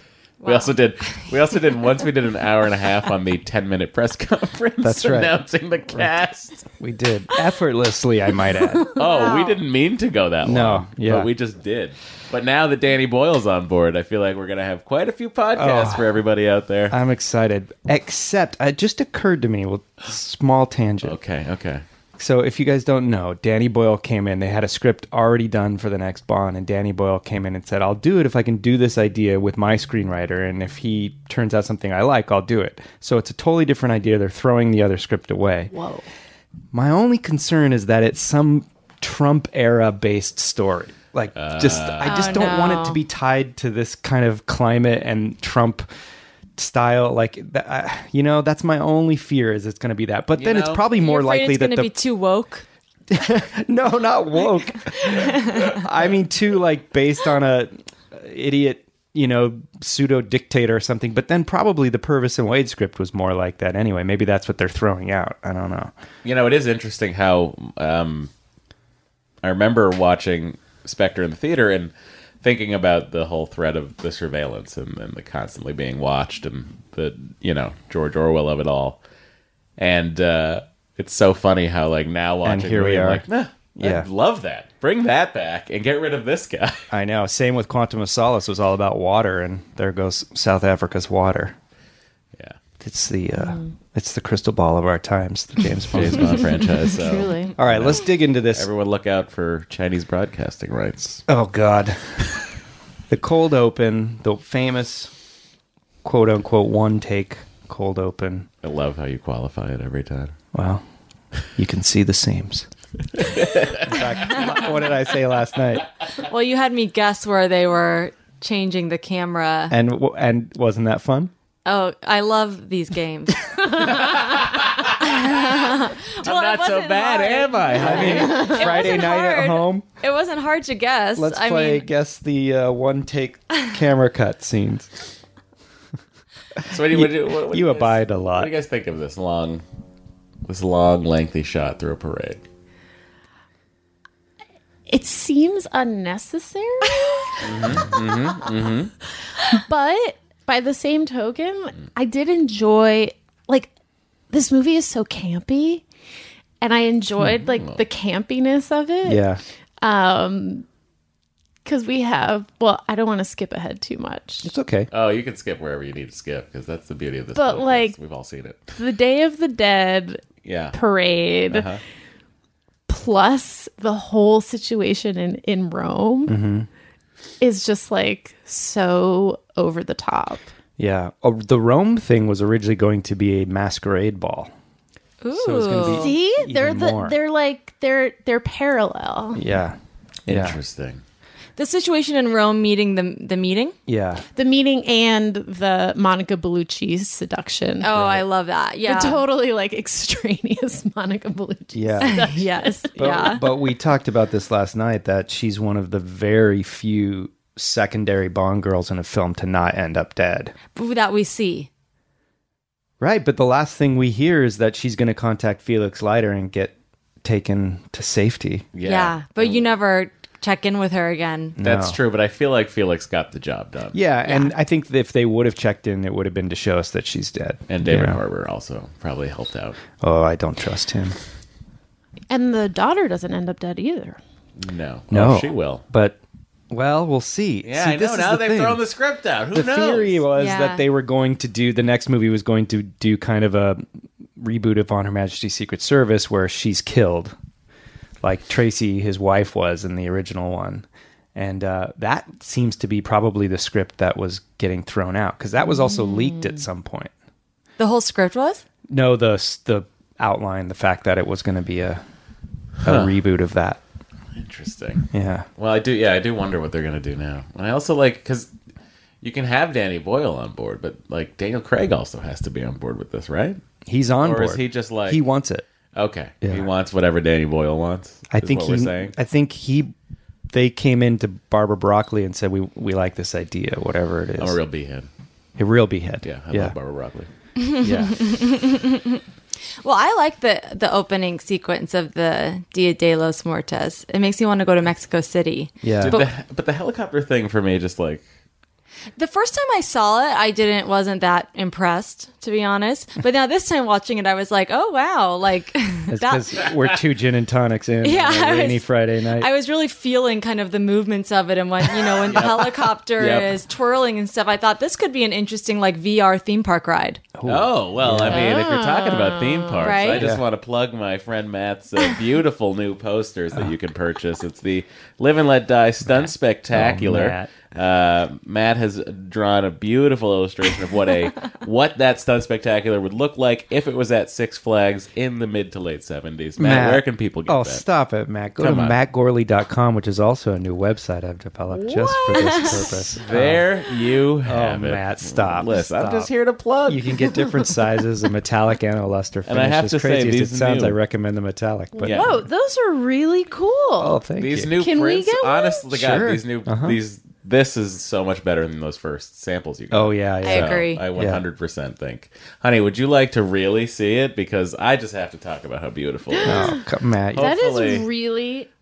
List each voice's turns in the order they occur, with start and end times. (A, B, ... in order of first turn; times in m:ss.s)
0:00.4-0:01.3 A
0:00.4-0:06.7 B
0:04.8-0:05.4 C
0:06.8-0:08.9 C
0:09.0-0:09.6 A
0:09.0-0:17.0 B
0:10.4-0:11.3 C
0:15.6-0:16.0 C
0:16.9-0:21.2 C
0:21.0-0:21.8 B
0:22.2-0:35.7 C
0:35.7-0:36.1 D
0:36.7-0:45.9 C
0:41.4-0:42.4 B
0:42.0-0:43.0 A
0:46.6-0:51.9 C
0:50.4-0:50.8 B
0:50.9-0:52.6 A
0:53.1-1:05.9 C
0:55.1-0:55.8 A
1:06.2-1:08.3 B
1:09.4-1:11.9 B
1:12.4-1:19.0 B
1:19.8-1:26.8 B
1:22.4-1:23.2 C
1:23.8-1:24.1 C
1:26.9-1:31.6 C
1:32.8-1:36.4 C
1:33.4-1:33.7 D
1:35.9-1:41.2 B
1:36.9-1:37.5 D
1:37.6-1:38.7 C
1:41.3-1:42.3 C
1:43.1-1:45.1 C
1:46.0-1:48.5 C
1:48.6-1:50.3 B
1:50.5-1:50.8 C
1:51.6-1:52.7 C
1:53.2-1:54.4 B
1:53.8-1:55.9 C
1:56.3-1:59.7 A
1:59.7-2:01.3 C
2:01.7-2:03.5 A
2:04.0-2:05.4 B
2:05.0-2:11.8 A
2:06.2-2:08.5 B
2:07.8-2:09.9 C
2:08.1-2:08.7 D
2:11.2-2:15.0 C
2:16.6-2:18.5 C
2:16.7-2:19.6 B
2:20.5-2:22.4 B
2:24.9-2:28.0 D
2:27.4-2:28.9 B
2:29.5-2:33.7 D
2:34.3-2:35.8 D
2:36.6-2:39.2 D
2:37.3-2:37.8 B
2:39.0-2:39.4 C
2:39.8-2:40.6 D
2:41.6-2:44.5 D
2:44.4-2:44.9 C
2:44.9-2:48.8 B
2:47.4-2:48.0 D
2:48.8-2:50.2 D
2:50.4-2:50.8 B
2:50.7-2:51.7 D
2:51.5-2:51.8 B
2:52.9-2:56.4 D
2:56.3-2:56.7 C
2:57.4-3:00.5 D
3:00.8-3:04.5 C
3:05.2-3:06.2 A
3:05.3-3:07.2 C
3:05.9-3:09.4 D
3:09.4-3:10.6 C
3:10.3-3:11.0 B
3:11.6-3:13.8 A
3:13.9-3:14.2 C
3:14.4-3:18.0 D
3:17.8-3:19.2 A
3:17.9-3:18.2 C
3:18.8-3:23.4 D
3:21.7-3:22.3 C
3:22.0-3:23.4 A
3:23.0-3:30.5 C
3:30.8-3:31.7 A
3:33.0-3:38.7 C
3:38.8-3:39.7 B
3:38.8-3:41.6 A
3:41.6-3:42.0 C
3:41.6-3:44.0 B
3:43.9-3:48.2 C
3:47.7-3:49.8 B
3:50.0-3:51.2 C
3:52.3-3:54.2 D
3:54.6-3:55.8 B
3:55.1-3:56.2 C
3:56.7-3:58.8 C
3:57.7-4:00.2 B
3:59.5-4:03.8 C
4:00.4-4:00.8 A
4:04.4-4:07.4 C
4:08.2-4:17.1 C
4:15.6-4:16.6 D
4:17.8-4:18.6 A
4:18.9-4:22.0 C
4:22.8-4:23.8 C
4:22.8-4:23.2 B
4:24.4-4:28.5 B
4:25.1-4:25.5 C
4:29.2-4:33.6 B
4:33.9-4:35.6 C
4:34.2-4:35.2 B
4:36.0-4:39.2 B
4:38.3-4:39.9 C
4:40.5-4:44.6 C
4:44.4-4:45.1 B
4:45.6-4:46.8 C
4:46.2-4:47.3 B
4:47.6-4:49.2 A
4:47.8-4:48.2 C
4:49.8-4:56.3 A
4:55.8-4:56.2 C
4:56.0-4:58.2 B
4:59.2-5:06.4 A
5:06.1-5:09.5 C
5:08.0-5:08.8 A
5:09.4-5:17.2 A
5:12.2-5:13.5 B
5:17.4-5:18.5 C
5:17.5-5:37.8 B
5:18.2-5:20.1 D
5:19.8-5:20.3 A
5:20.1-5:20.4 C
5:26.0-5:27.5 C
5:36.6-5:43.7 C
5:38.6-5:39.0 B
5:41.7-5:42.7 D
5:42.3-5:42.8 A
5:43.2-5:47.1 B
5:44.4-5:46.3 C
5:46.9-5:52.4 C
5:49.5-5:51.0 B
5:52.0-5:54.2 D
5:52.0-5:52.3 B
5:54.0-5:54.7 C
5:54.4-6:06.8 B
5:54.8-5:55.8 D
5:55.9-5:57.0 C
5:59.9-6:01.4 C
6:00.4-6:01.0 A
6:06.3-6:06.8 D
6:06.4-6:07.5 C
6:07.3-6:08.1 B
6:07.4-6:08.7 D